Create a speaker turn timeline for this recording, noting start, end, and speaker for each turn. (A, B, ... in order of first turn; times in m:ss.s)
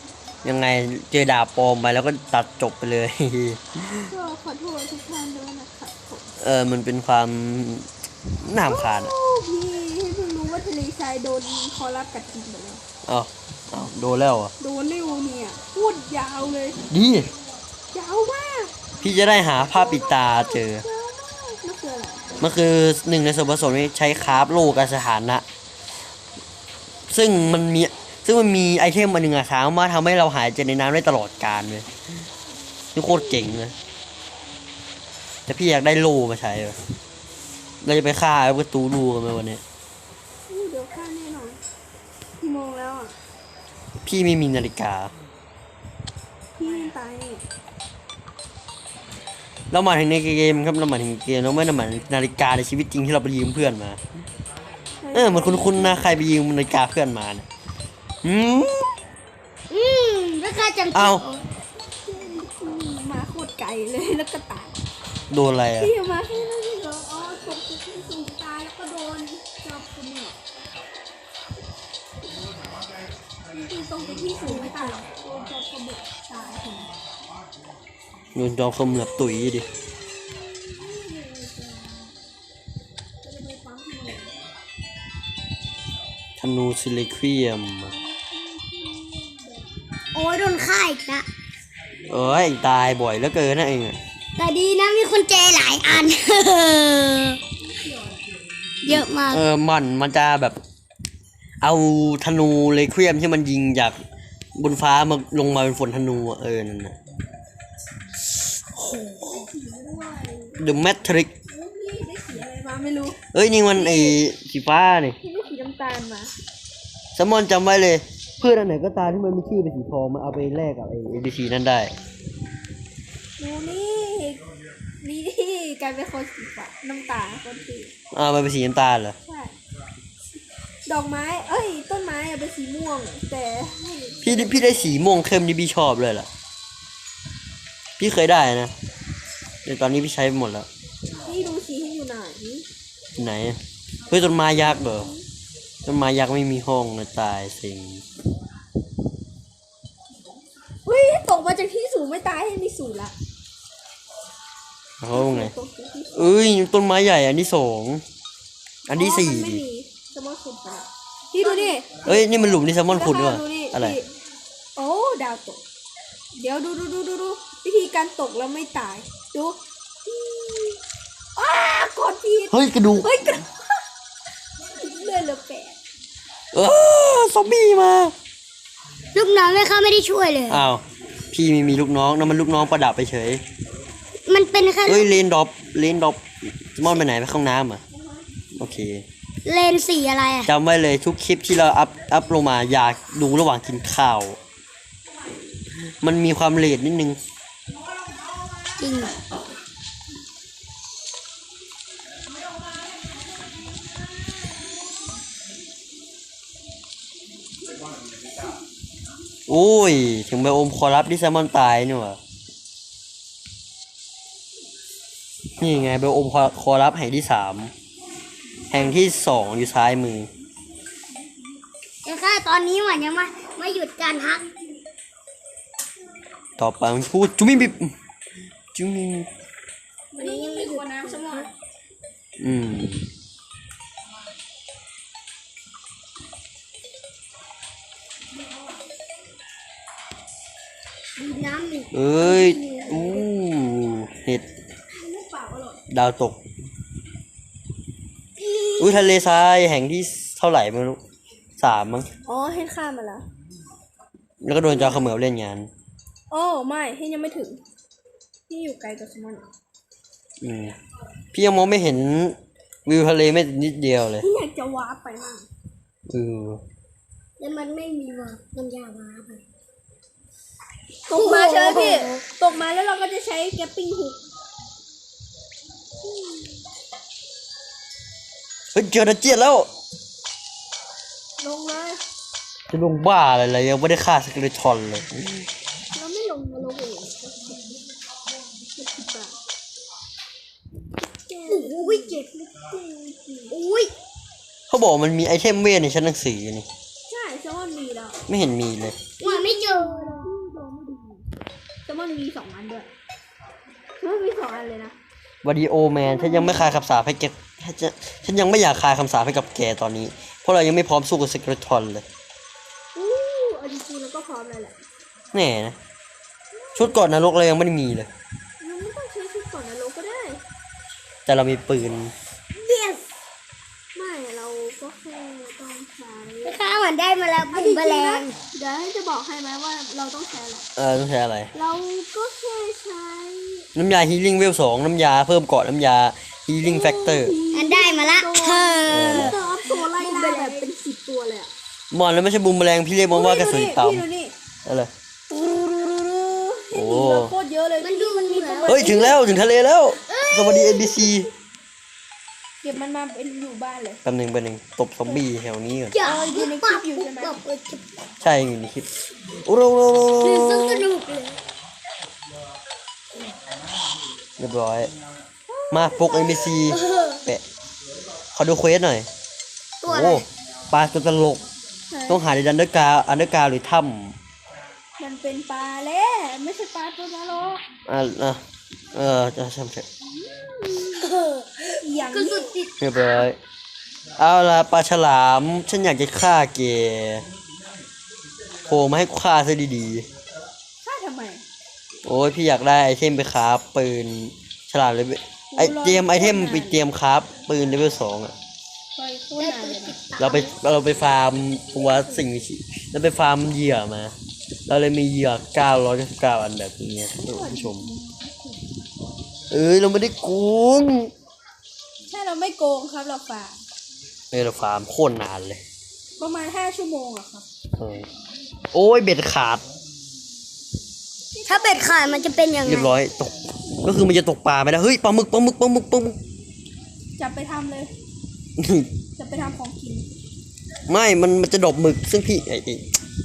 0:00.4-0:04.1 A
0:04.1-0:06.3 B
0:06.4-0:07.9 A
0:08.4-0:09.1 A
0:08.7-0:12.8 B
0:13.0-0:14.5 A
0:14.6-0:16.8 B
0:16.9-0:17.3 A
0:17.9-0:18.7 B
0:19.0-0:20.8 A
0:19.6-0:22.2 B
0:22.4-0:25.4 A
0:27.1-0:31.9 A
0:33.0-0:33.7 A
0:35.5-0:36.8 A
0:37.8-0:39.6 A
0:40.5-0:41.6 B
0:42.4-0:43.1 B
0:44.0-0:45.1 A
0:46.6-0:47.4 B
0:49.7-0:54.0 A
0:55.0-0:56.1 B
0:55.1-0:57.5 A
0:58.2-0:59.0 A
0:59.7-1:01.5 C
1:00.9-1:01.2 A
1:02.0-1:04.7 B
1:05.3-1:05.9 A
1:05.8-1:10.4 B
1:13.5-1:16.9 B
1:14.5-1:14.9 C
1:18.4-1:19.7 A
1:20.5-1:22.1 B
1:23.2-1:24.4 B
1:26.4-1:27.9 A
1:27.9-1:29.7 B
1:30.1-1:31.3 C
1:32.1-1:34.0 A
1:34.4-1:37.4 C
1:37.6-1:38.2 B
1:38.8-1:39.4 C
1:38.9-1:40.6 A
1:41.6-1:44.0 A
1:44.6-1:47.0 A
1:48.9-1:50.6 B
1:50.6-1:51.3 A
1:51.5-1:53.2 B
1:53.3-1:55.2 A
1:53.7-1:54.2 B
1:55.2-1:56.3 B
1:57.2-2:01.9 A
2:03.4-2:04.4 B
2:05.0-2:07.9 B
2:08.1-2:09.2 A
2:09.3-2:09.6 B
2:10.9-2:14.9 B
2:14.2-2:16.3 A
2:18.0-2:18.7 A
2:19.6-2:20.7 A
2:21.2-2:22.6 B
2:23.2-2:23.6 A
2:24.1-2:25.1 A
2:24.8-2:25.2 B
2:25.9-2:28.0 A
2:30.9-2:33.1 B
2:35.0-2:35.5 A
2:35.1-2:36.3 B
2:36.1-2:38.0 A
2:38.9-2:39.6 A
2:38.9-2:42.2 B
2:41.4-2:41.7 C
2:42.0-2:44.0 A
2:42.9-2:44.1 B
2:44.8-2:45.6 B
2:46.4-2:50.8 B
2:51.4-2:53.5 B
2:52.5-2:53.1 A
2:54.7-2:55.8 B
2:56.5-2:58.1 A
2:59.1-3:00.7 C
3:00.5-3:03.4 A
3:04.3-3:05.2 C
3:04.9-3:07.8 A
3:08.6-3:09.0 A
3:09.4-3:10.5 C
3:10.4-3:14.4 A
3:16.0-3:17.2 A
3:18.8-3:19.2 C
3:29.5-3:32.2 A
3:35.6-3:37.7 A
3:38.7-3:40.3 A
3:42.0-3:44.5 C
3:46.6-3:47.9 A
3:48.7-3:49.3 A
3:50.1-3:51.5 B
3:50.2-3:51.5 C
3:52.4-3:53.1 A
4:01.2-4:03.2 C
4:01.9-4:04.4 A
4:02.2-4:03.3 B
4:04.9-4:05.8 B
4:05.9-4:06.4 A
4:08.5-4:08.9 B
4:08.8-4:11.0 A
4:11.6-4:12.1 A
4:12.2-4:13.3 B
4:14.4-4:15.7 A
4:14.7-4:15.0 B
4:16.3-4:17.6 B
4:18.5-4:19.5 B
4:20.4-4:20.8 A
4:21.3-4:24.3 A
4:24.2-4:25.5 B
4:26.1-4:26.6 A
4:27.4-4:29.4 C
4:31.1-4:34.2 B
4:31.1-4:32.2 C
4:38.8-4:39.7 A
4:41.4-4:42.0 B
4:42.7-4:45.5 A
4:45.9-4:47.8 B
4:48.7-4:49.4 B
4:51.3-4:53.6 B
4:51.5-4:52.3 C
4:53.5-4:53.9 C
4:54.7-4:56.7 A
4:57.1-4:58.2 B
4:58.3-4:59.0 A
4:59.2-5:00.3 C
4:59.2-5:01.3 B
5:01.9-5:02.9 B
5:04.0-5:05.0 B
5:05.4-5:12.0 A
5:06.0-5:06.7 B
5:13.0-5:14.8 B
5:15.3-5:15.8 A
5:16.5-5:17.0 B
5:16.8-5:18.1 A
5:18.6-5:20.4 B
5:21.3-5:22.1 A
5:22.6-5:23.0 C
5:24.0-5:26.6 B
5:26.4-5:28.4 C
5:27.5-5:30.7 B
5:30.8-5:31.5 A
5:31.5-5:33.7 B
5:33.7-5:37.4 A
5:36.6-5:41.5 B
5:37.5-5:40.7 C
5:38.9-5:39.4 A
5:41.9-5:44.1 A
5:43.1-5:44.3 B
5:44.6-5:44.9 A
5:45.3-5:49.2 B
5:46.7-5:47.4 A
5:47.8-5:48.9 C
5:48.7-5:51.3 A
5:50.1-5:51.2 C
5:52.6-5:54.0 B
5:54.0-5:56.0 A
5:55.9-5:57.8 C
5:56.0-5:57.4 B
5:58.2-6:00.9 A
6:00.2-6:01.4 C
6:04.4-6:04.9 A
6:05.5-6:06.8 B
6:05.7-6:07.4 A
6:06.7-6:07.2 C
6:08.3-6:09.1 A
6:09.8-6:10.3 C
6:09.9-6:11.4 A
6:11.9-6:12.2 B
6:12.1-6:14.2 A
6:15.0-6:17.6 B
6:17.9-6:18.4 A
6:18.9-6:19.9 A
6:20.3-6:21.0 B
6:21.0-6:23.2 C
6:21.8-6:22.6 B
6:22.8-6:23.4 A
6:24.2-6:27.2 A
6:28.7-6:30.0 A
6:30.8-6:31.4 B
6:32.0-6:38.3 A
6:35.5-6:36.8 B
6:39.0-6:40.0 B
6:39.4-6:40.6 C
6:40.2-6:44.1 A
6:44.7-6:47.9 A
6:47.1-6:48.7 B
6:49.5-6:51.1 A
6:52.1-6:53.6 B
6:54.3-6:55.6 A
6:56.2-6:57.5 B
6:57.8-6:58.1 A
6:58.7-6:59.6 A
7:01.3-7:02.8 B
7:01.5-7:02.9 C
7:02.6-7:06.2 A
7:07.2-7:07.9 B
7:08.6-7:08.9 A
7:09.2-7:10.1 B
7:10.9-7:12.8 A